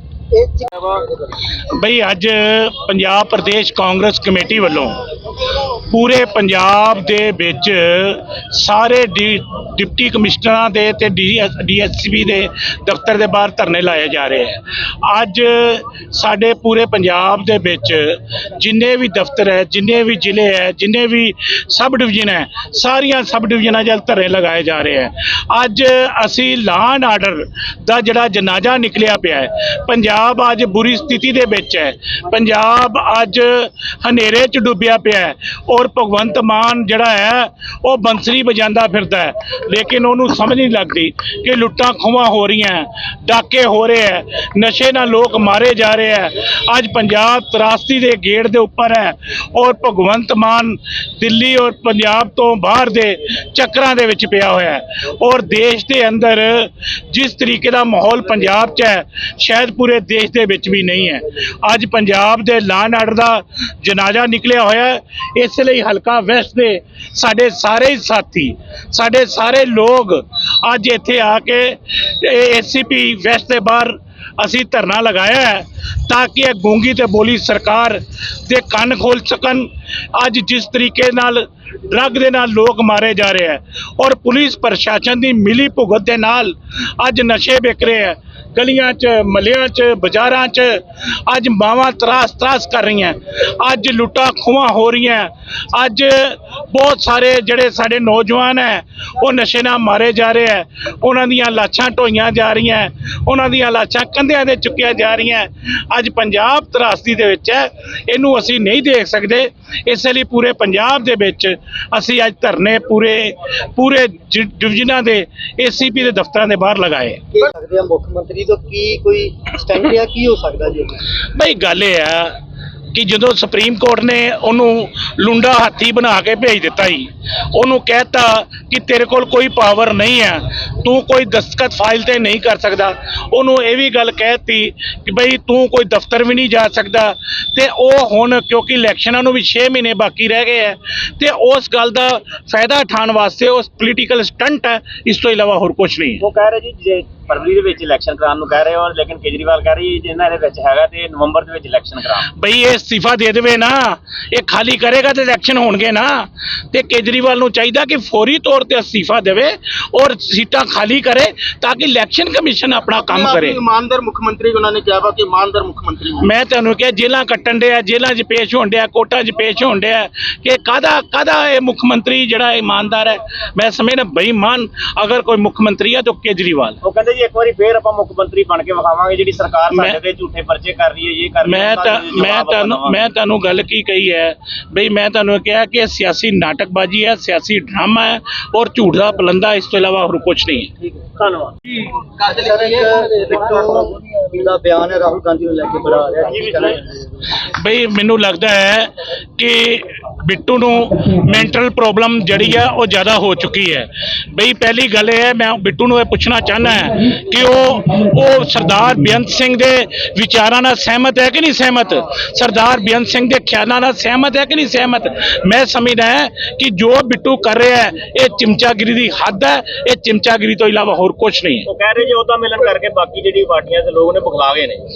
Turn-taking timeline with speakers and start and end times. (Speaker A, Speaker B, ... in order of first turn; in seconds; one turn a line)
Speaker A: 0.3-1.4
Speaker B: 1.4-117.3
Speaker A: 117.3-121.0
Speaker B: 121.2-122.3
Speaker B: 122.9-146.2
Speaker C: 146.2-152.3
Speaker B: 152.3-163.6
Speaker D: 163.1-166.3
Speaker B: 166.2-176.8
Speaker C: 176.8-183.1
Speaker B: 179.7-180.0
Speaker B: 181.4-190.7
Speaker C: 191.2-191.5
Speaker A: 192.2-197.4
Speaker C: 196.3-196.7
Speaker B: 197.4-221.7
Speaker C: 221.7-224.8